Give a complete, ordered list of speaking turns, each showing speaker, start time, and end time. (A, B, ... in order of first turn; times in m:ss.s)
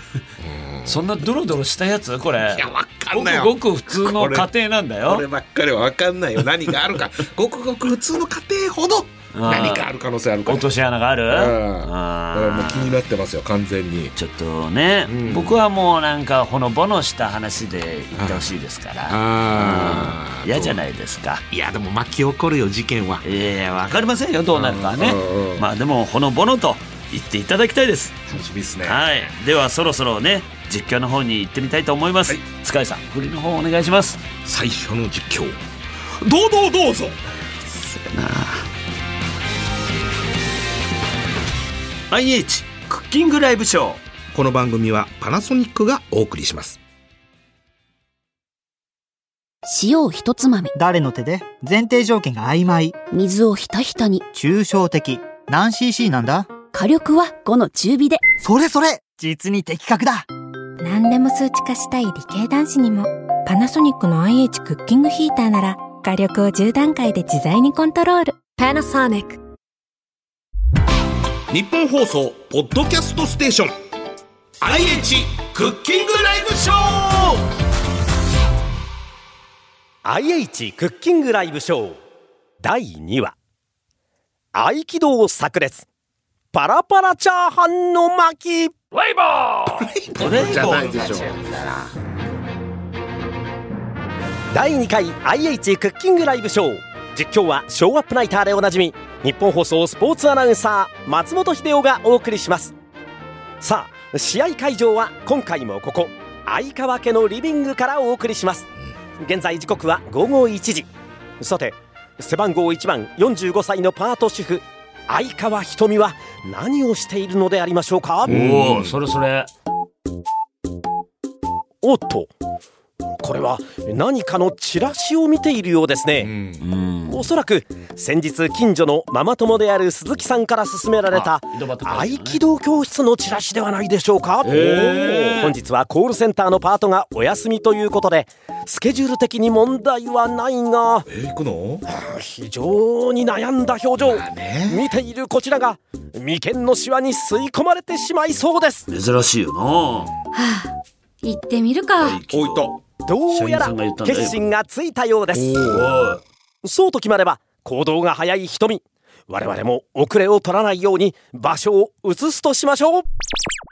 0:00.4-0:01.0 A
0:00.9-0:05.2 B
0:02.5-0:04.5 A
0:05.0-0:10.7 A
0:09.3-0:09.8 B
0:10.5-0:13.0 B
0:11.3-0:14.1 A
0:14.2-0:21.4 B
0:15.1-0:15.6 A
0:18.2-0:18.5 A
0:19.1-0:20.8 A
0:21.5-0:23.2 A
0:23.2-0:28.3 B
0:24.6-0:25.6 A
0:28.3-0:29.0 A
0:28.8-0:34.2 B
0:34.4-0:35.6 A
0:36.2-0:37.2 A
0:37.9-0:38.7 B
0:42.1-0:44.0 B
0:44.3-0:46.8 A
0:49.7-0:50.7 C
0:50.7-0:53.0 D
0:53.1-0:54.2 C
0:54.3-0:56.5 D
0:56.7-0:58.2 C
0:58.4-1:00.3 D
1:00.8-1:08.5 E
1:08.6-1:09.4 F
1:11.5-1:13.8 A
1:14.6-1:17.4 A
1:20.0-1:22.0 G
1:22.6-1:23.4 G
1:24.5-1:25.9 G
1:26.5-1:28.8 G
1:29.0-1:31.7 B
1:29.7-1:31.3 A
1:34.5-1:42.7 G
1:43.6-1:48.7 G
1:49.2-1:58.3 G
1:58.2-1:59.5 B
1:58.3-1:59.0 A
2:01.8-2:02.3 G
2:03.2-2:06.3 G
2:06.2-2:06.6 A
2:06.6-2:07.2 B
2:07.1-2:21.1 G
2:11.1-2:12.4 B
2:14.4-2:15.6 B
2:14.5-2:15.4 A
2:21.1-2:21.8 A
2:21.9-2:28.9 G
2:24.0-2:24.9 A
2:28.9-2:30.1 B
2:30.3-2:30.7 F
2:31.2-2:32.2 F
2:32.0-2:32.8 B
2:32.3-2:32.8 A
2:33.1-2:35.6 G
2:33.3-2:34.4 B
2:35.3-2:36.0 A
2:35.6-2:36.2 B
2:36.6-2:43.1 G